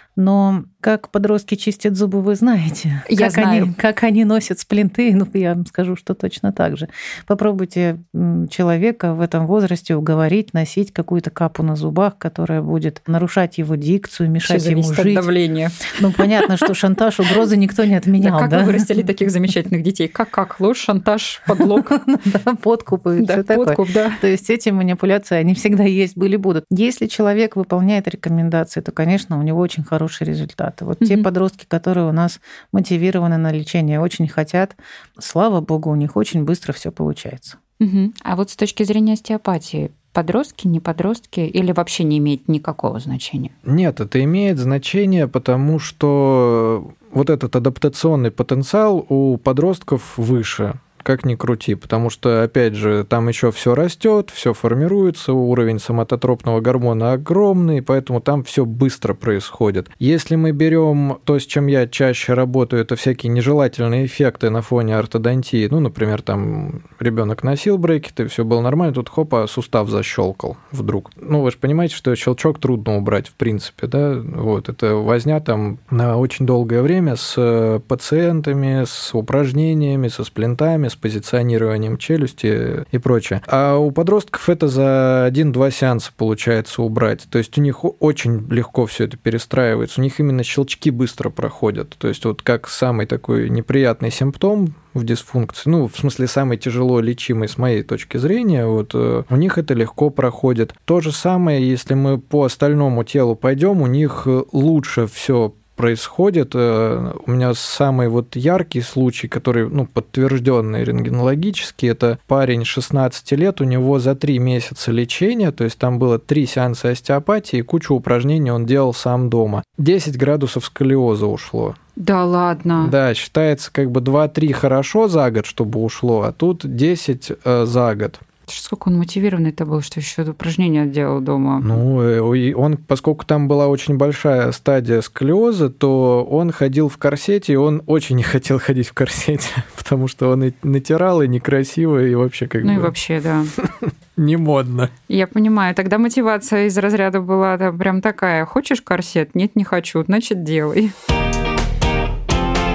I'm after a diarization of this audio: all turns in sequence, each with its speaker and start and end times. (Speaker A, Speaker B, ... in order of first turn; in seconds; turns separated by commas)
Speaker A: 0.1-15.3, Speaker B: 3.1-3.7, Speaker B: 14.4-16.6, Speaker A: 15.9-19.1, Speaker B: 18.2-21.9, Speaker A: 21.6-37.6, Speaker B: 23.2-24.2, Speaker B: 31.0-31.3, Speaker B: 37.8-43.5, Speaker C: 43.6-121.8, Speaker B: 122.0-122.9, Speaker C: 122.8-128.2, Speaker B: 128.5-131.8, Speaker C: 131.6-142.9, Speaker B: 142.6-143.5, Speaker C: 143.6-144.9, Speaker B: 145.1-150.9